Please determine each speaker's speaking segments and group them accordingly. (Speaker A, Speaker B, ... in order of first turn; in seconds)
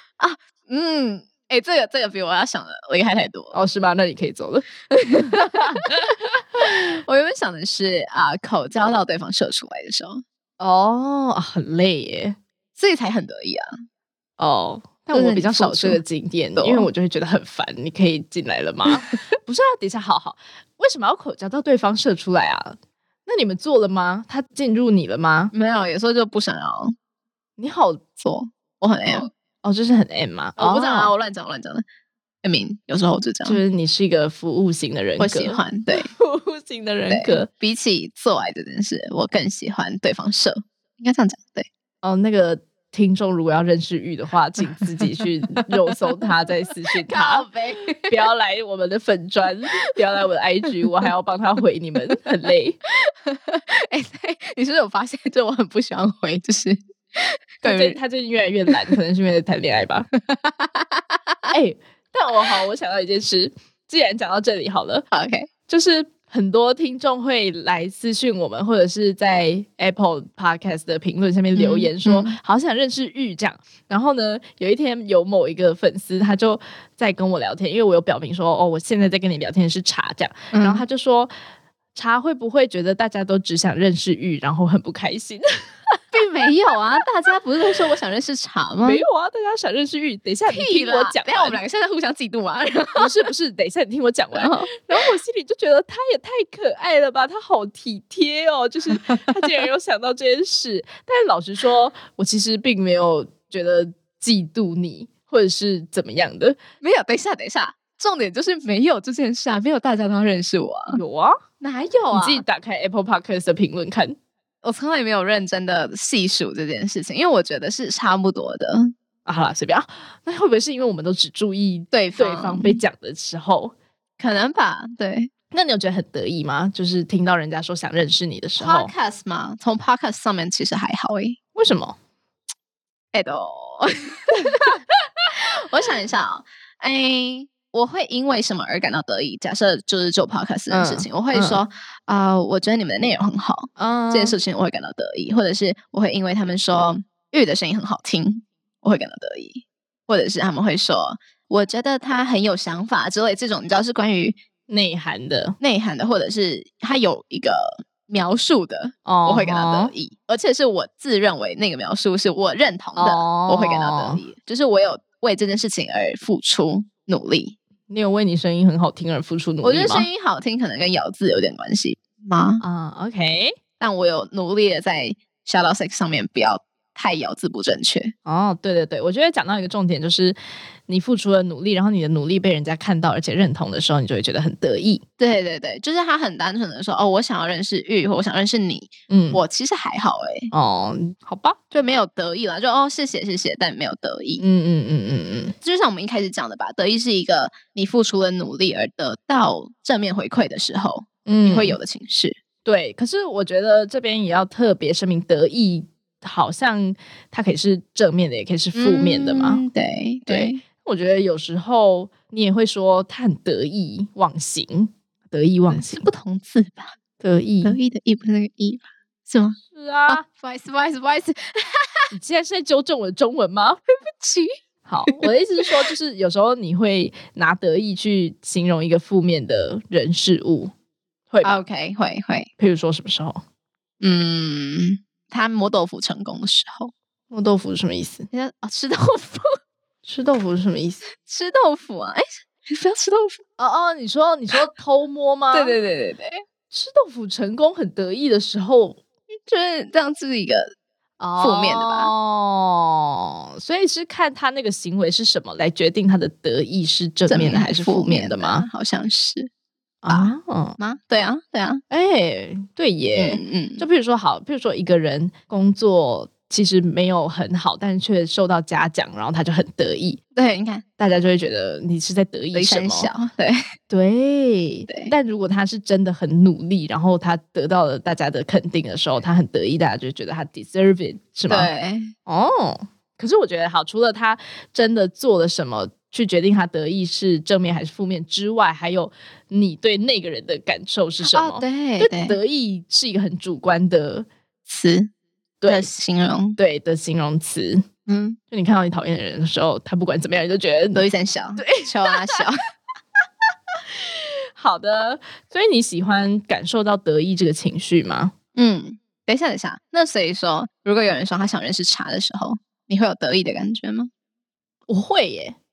Speaker A: 0.2-3.5, 4.9-5.9, 6.6-10.2, 12.8-13.7, 15.1-16.0, 16.6-16.9, 25.5-26.9, 28.2-29.3, 30.6-31.8, 32.4-33.6, 35.2-36.1, 37.1-41.7, 47.1-48.2, 53.0-58.0, 60.3-61.5, 65.1-65.5, 71.5-72.3, 80.5-80.8, 86.1-89.0, 90.5-93.2, 94.3-95.0, 106.8-111.0, 111.6-112.4, 114.6-118.9, 121.9-122.8, 124.2-125.3, 128.6-131.4, 133.1-134.7, 135.3-154.4, 155.6-167.6, 169.6-172.6, 173.8-178.1, 185.2-190.5, 191.7-194.4, 195.6-202.4, 208.7-210.6, 215.7-216.9, 217.6-219.6, 220.1-222.1, 224.2-224.5, 231.4-232.5, 234.0-236.9, 238.3-239.5, 241.2-243.4, 245.5-246.4, 249.4-250.7, 251.4-252.1, 257.3-259.5, 260.1-261.8, 263.1-263.9, 270.4-270.8, 272.5-273.6, 281.5-282.1, 291.2-292.4, 294.7-295.1, 295.7-296.6, 298.1-298.4, 300.9-302.6, 308.6-314.1
Speaker B: 3.5-6.4, 10.6-12.4, 14.4-25.5, 27.6-28.0, 29.1-31.1, 33.4-37.5, 42.0-47.5, 48.0-52.8, 57.6-60.1, 61.5-65.0, 65.7-81.3, 81.9-85.5, 88.8-91.6, 93.0-106.6, 110.9-111.4, 112.1-114.2, 119.2-123.7, 125.5-128.9, 131.5-132.0, 140.7-141.6, 143.8-144.3, 154.7-155.6, 159.1-159.9, 162.9-164.2, 167.9-170.1, 172.6-173.6, 178.2-180.4, 180.9-185.0, 189.1-189.4, 190.5-191.6, 194.4-195.5, 201.2-201.8, 202.7-209.6, 210.3-216.1, 217.2-217.8, 219.7-220.2, 222.1-223.8, 224.8-230.7, 231.3-231.6, 232.6-233.4, 237.3-238.3, 240.0-241.0, 243.6-245.8, 246.7-249.0, 251.2-258.6, 260.0-260.8, 261.9-270.2, 271.0-273.1, 273.9-281.7, 282.2-294.3, 295.6-295.9, 296.6-297.8, 298.5-301.0, 301.6-302.4, 303.9-308.3, 314.9-315.6